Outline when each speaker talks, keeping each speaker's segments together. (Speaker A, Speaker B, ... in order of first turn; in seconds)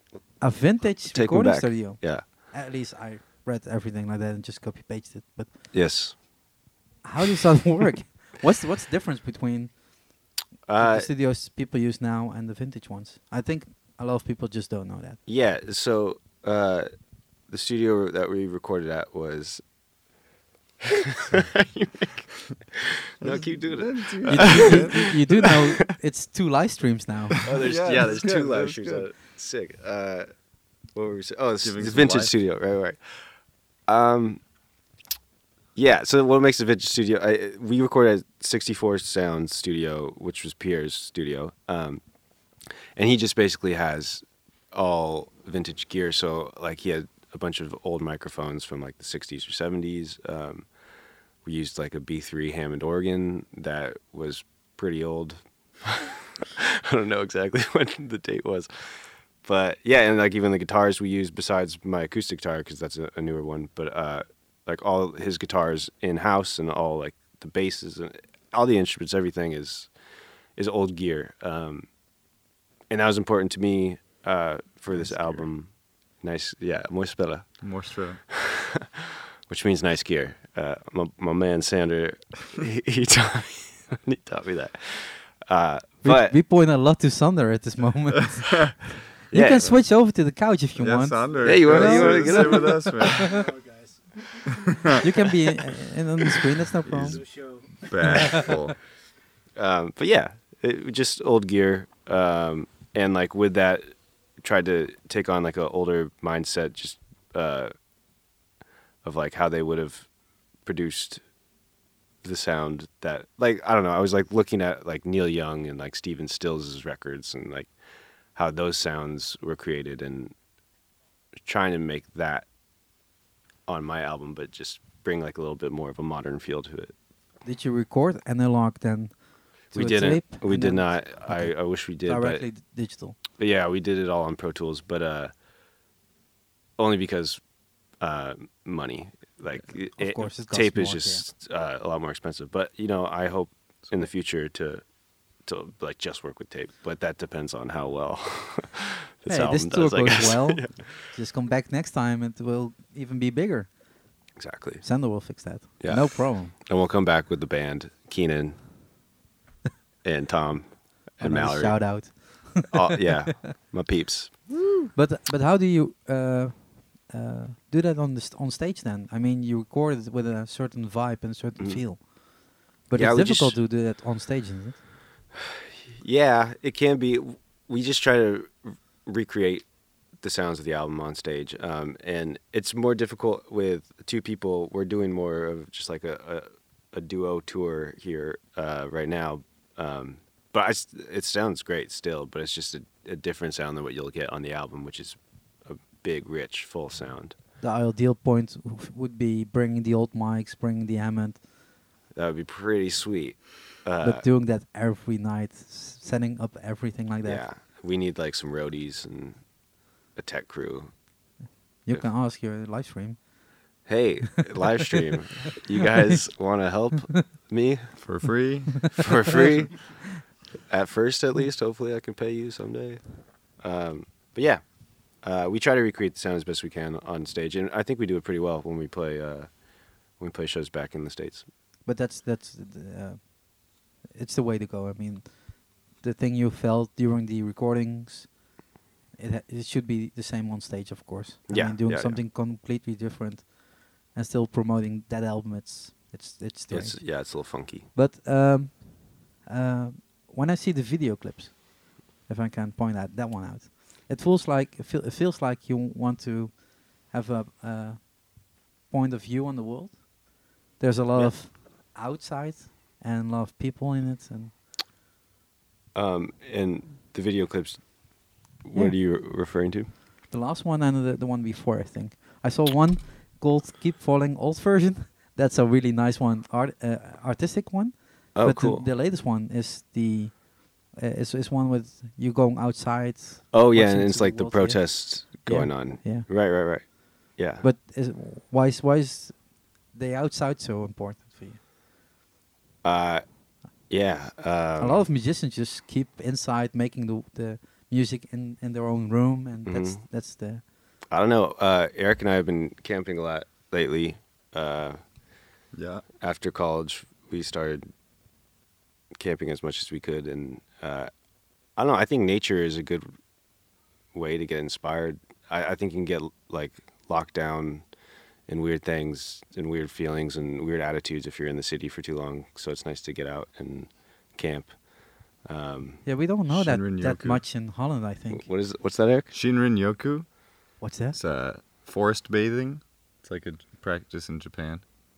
Speaker A: 0.4-5.5, 7.0-9.8, 10.8-15.2, 24.3-27.4, 86.0-93.5, 94.9-97.2, 127.4-129.2, 129.7-133.2, 139.6-141.3, 149.3-153.7, 154.8-156.5, 161.2-163.5, 164.9-172.1, 172.9-174.8, 197.6-201.4, 204.0-207.4, 211.9-213.2, 231.9-233.3, 234.1-238.3, 239.2-243.6, 244.1-251.7, 252.3-258.1, 258.9-260.0, 260.8-264.5, 270.3-286.3, 287.6-291.6, 294.8-300.6, 326.1-328.5, 330.8-331.2
Speaker B: 0.9-2.2, 5.7-6.2, 10.7-11.1, 15.3-16.9, 17.5-19.6, 20.9-25.5, 27.4-30.3, 30.9-33.0, 33.9-34.4, 35.8-42.0, 43.0-50.7, 51.5-69.9, 70.6-71.9, 72.9-75.7, 76.2-77.5, 78.3-78.9, 79.5-86.4, 89.3-89.7, 91.4-93.1, 98.1-98.6, 99.6-103.8, 104.4-107.7, 109.0-110.1, 110.7-111.2, 112.2-117.7, 118.3-120.3, 121.5-122.5, 123.7-126.9, 129.7-132.4, 133.4-135.3, 136.8-137.4, 138.0-144.8, 145.4-150.9, 154.4-154.9, 155.8-158.6, 160.0-164.4, 172.9-173.6, 175.9-179.7, 180.2-197.3, 202.2-204.2, 207.2-209.4, 210.2-210.9, 213.9-217.9, 219.0-220.0, 220.7-223.0, 223.6-224.6, 225.2-229.5, 230.2-231.5, 241.5-242.2, 246.7-247.9, 265.9-267.8, 268.6-269.9, 278.4-278.9, 283.5-287.6, 292.8-293.2, 293.9-295.0, 299.7-300.0, 301.1-305.0, 306.2-307.8, 309.2-311.1, 311.8-313.1, 314.1-317.8, 318.5-324.8, 325.4-326.0, 328.3-329.3
Speaker C: 23.2-25.2, 27.4-29.1, 31.6-32.4, 74.9-75.5, 77.6-78.2, 90.8-93.5, 94.5-95.0, 96.9-98.8, 218.0-219.1, 305.7-306.0, 326.5-327.4, 329.3-330.3, 331.1-334.8